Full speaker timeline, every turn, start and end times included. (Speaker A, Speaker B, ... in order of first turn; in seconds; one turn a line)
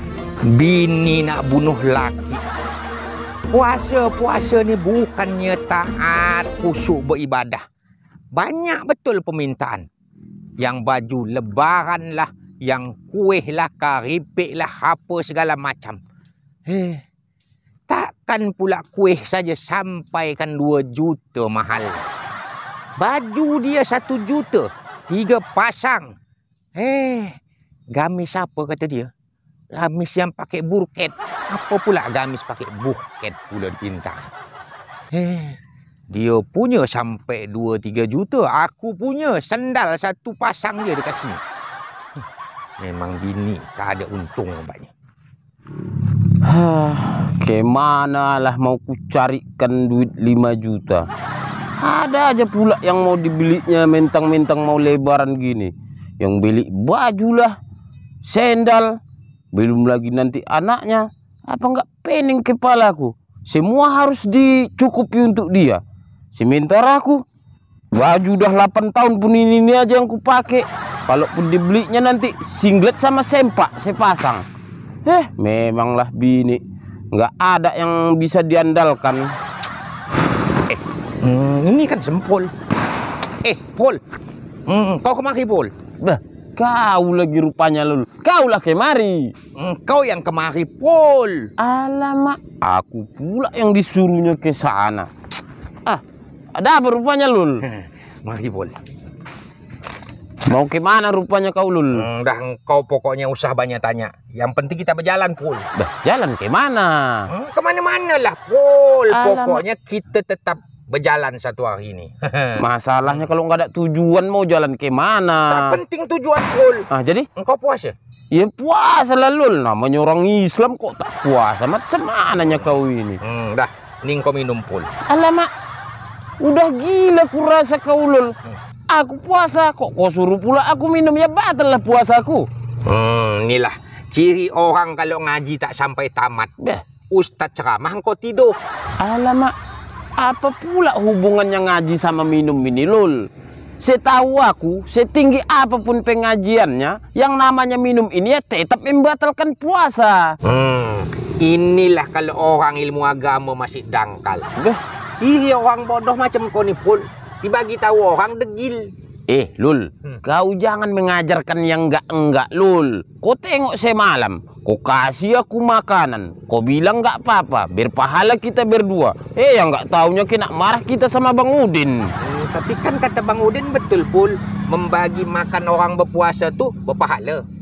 Speaker A: 0.5-2.4
Speaker A: 3.5-7.6
Speaker A: 8.3-9.8
Speaker A: 10.6-16.0
Speaker A: 16.7-17.0
Speaker A: 17.9-22.1
Speaker A: 23.0-26.1
Speaker A: 26.8-27.4
Speaker A: 27.9-29.1
Speaker A: 29.7-34.3
Speaker A: 35.1-35.6
Speaker A: 36.1-41.4
Speaker A: 42.8-44.9
Speaker B: 46.4-51.1
Speaker B: 51.8-57.5
Speaker B: 58.2-59.0
Speaker B: 59.5-65.8
Speaker B: 66.3-67.2
Speaker B: 67.9-74.5
Speaker B: 75.0-76.6
Speaker B: 77.1-79.3
Speaker A: 80.7-82.5
Speaker A: 83.4-84.0
Speaker A: 84.7-85.7
Speaker B: 86.0-89.3
Speaker A: 89.5-91.5
Speaker B: 91.6-95.1
Speaker B: 96.5-97.6
Speaker A: 97.6-98.8
Speaker B: 100.5-102.0
Speaker A: 101.9-105.7
Speaker B: 105.8-107.3
Speaker A: 107.3-113.3
Speaker B: 109.1-109.6
Speaker B: 112.6-115.8
Speaker A: 115.5-117.9
Speaker B: 116.9-117.3
Speaker B: 118.3-123.2
Speaker A: 122.4-124.9
Speaker B: 125.1-125.5
Speaker B: 126.4-128.3
Speaker B: 128.9-132.5
Speaker A: 132.8-136.5
Speaker B: 136.6-136.8
Speaker A: 137.1-138.6
Speaker B: 139.0-139.5
Speaker B: 140.2-143.3
Speaker B: 143.8-150.3
Speaker A: 150.4-154.4
Speaker A: 155.2-158.9
Speaker B: 159.3-172.1
Speaker A: 172.2-177.4